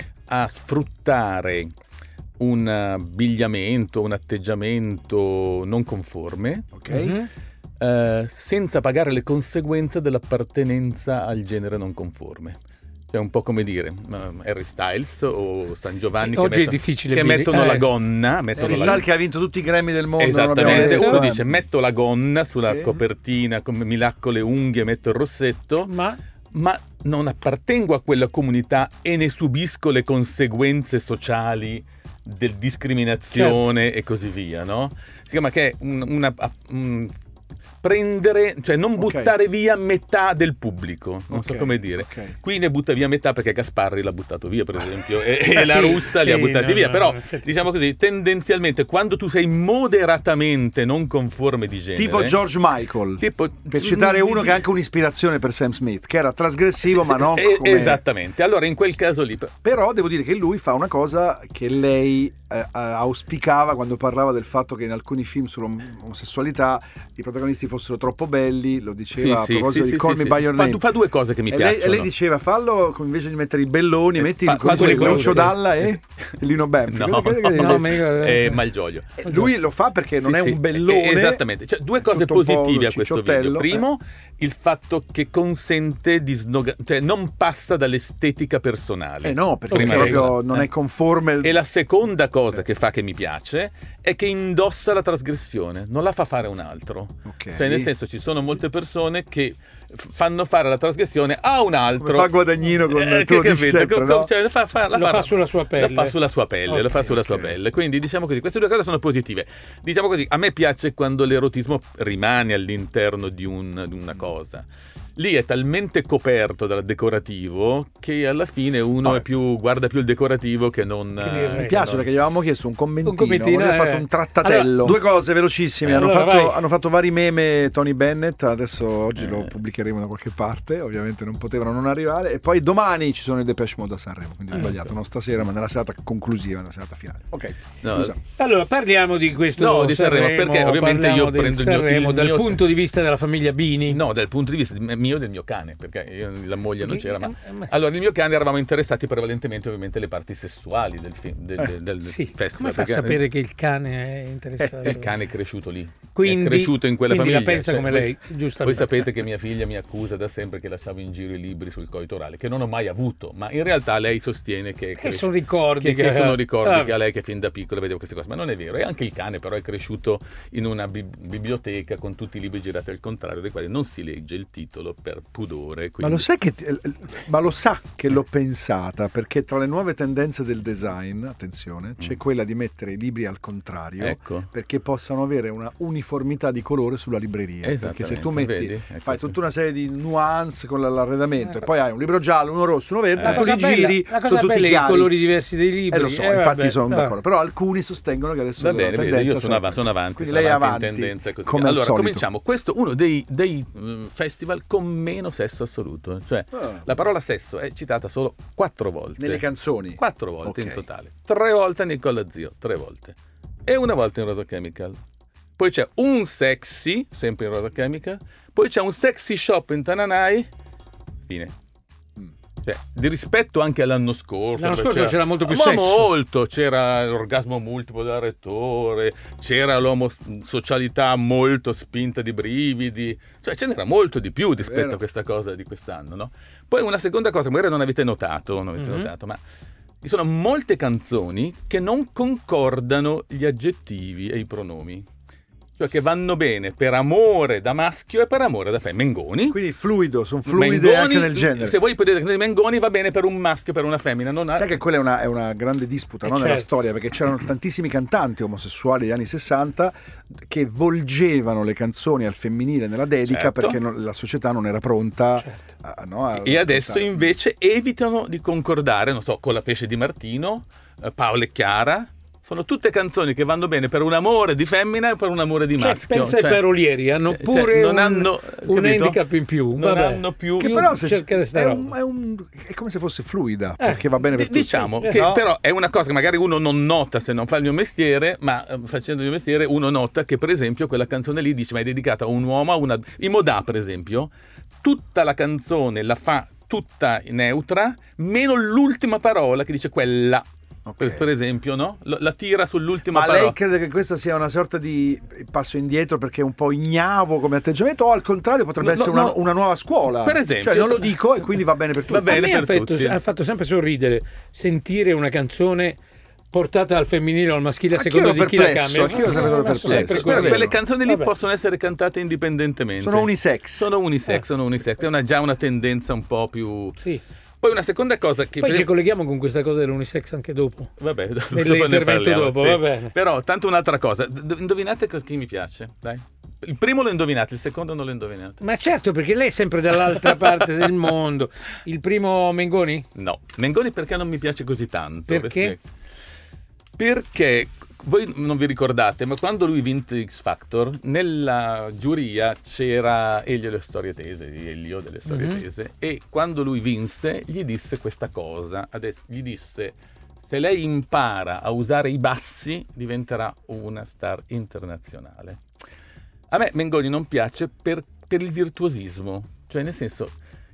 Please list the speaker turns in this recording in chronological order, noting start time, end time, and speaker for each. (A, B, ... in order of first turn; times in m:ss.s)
0:00.3-0:01.7 A
0:02.4-0:06.7 A
0:06.7-0:07.2 B
0:06.9-0:07.3 C
0:07.8-0:12.6 A
0:13.1-0:19.1 A
0:16.2-0:17.9 C
0:18.6-0:21.6 B
0:20.2-0:25.9 A
0:20.6-0:21.2 C
0:22.6-0:22.9 B
0:25.9-0:26.2 C
0:26.5-0:37.1 A
0:33.3-0:33.6 C
0:37.8-0:52.4 A
0:39.0-0:39.3 B
0:41.3-0:42.4 B
0:45.5-0:47.7 C
0:52.0-0:58.0 B
0:53.2-0:54.6 A
0:56.8-0:59.6 A
0:59.6-1:10.8 B
1:09.1-1:12.1 A
1:11.5-1:17.9 B
1:14.2-1:16.0 A
1:14.6-1:15.6 C
1:16.9-1:19.3 A
1:17.5-1:18.6 C
1:19.2-1:21.4 B
1:20.2-1:30.7 A
1:22.0-1:23.8 B
1:29.2-1:31.6 B
1:29.7-1:30.3 C
1:31.4-2:02.1 A
1:37.3-1:37.9 B
1:42.0-1:44.3 B
1:44.9-1:46.1 C
1:46.7-1:47.1 C
1:47.2-1:47.6 B
2:01.2-2:01.8 C
2:01.5-2:18.2 B
2:03.0-2:05.0 C
2:05.9-2:06.6 C
2:09.2-2:09.5 A
2:14.5-2:14.9 A
2:17.8-2:18.2 A
2:18.4-2:24.0 C
2:19.6-2:22.6 A
2:23.9-2:33.2 A
2:26.8-2:27.7 C
2:32.0-2:35.1 C
2:34.8-2:56.3 A
2:36.2-2:39.1 C
2:45.0-2:46.9 C
2:56.0-3:15.1 B
3:04.0-3:04.5 A
3:07.6-3:09.3 A
3:13.2-3:13.5 A
3:13.2-3:17.2 C
3:15.9-3:22.2 B
3:18.6-3:29.4 A
3:26.5-3:26.8 B
3:29.2-3:30.8 B
3:30.0-3:35.0 A
3:35.6-3:40.5 A
3:41.2-3:41.5 A
3:42.6-3:59.4 A
3:44.6-3:46.1 C
3:54.6-3:55.0 B
3:58.8-3:59.1 C
4:00.0-4:05.1 A
4:05.8-4:09.6 A
4:09.5-4:11.8 B
4:10.5-4:14.7 A
4:14.5-4:27.3 B
4:16.3-4:16.7 C
4:23.3-4:23.8 A
4:26.4-4:36.6 A
4:35.8-4:41.9 C
4:37.3-4:39.2 A
4:39.7-4:40.9 A
4:40.6-4:45.4 B
4:44.3-4:54.3 A
4:54.8-5:00.5 A
5:00.9-5:01.3 B
5:01.0-5:03.6 A
5:03.1-5:12.5 B
5:08.8-5:09.4 A
5:10.2-5:11.1 A
5:12.1-5:13.2 A
5:12.3-5:16.0 C
5:16.5-5:21.3 C
5:17.9-5:20.7 B
5:19.3-5:27.0 A
5:23.0-5:23.9 B
5:27.6-5:28.9 A
5:28.6-5:30.9 C
5:31.0-5:38.6 A
5:31.5-5:33.2 C
5:38.6-5:43.1 C
5:43.2-5:45.8 A
5:45.3-5:45.8 C
5:47.0-6:05.6 A
5:55.3-5:55.6 C
6:06.5-6:10.3 A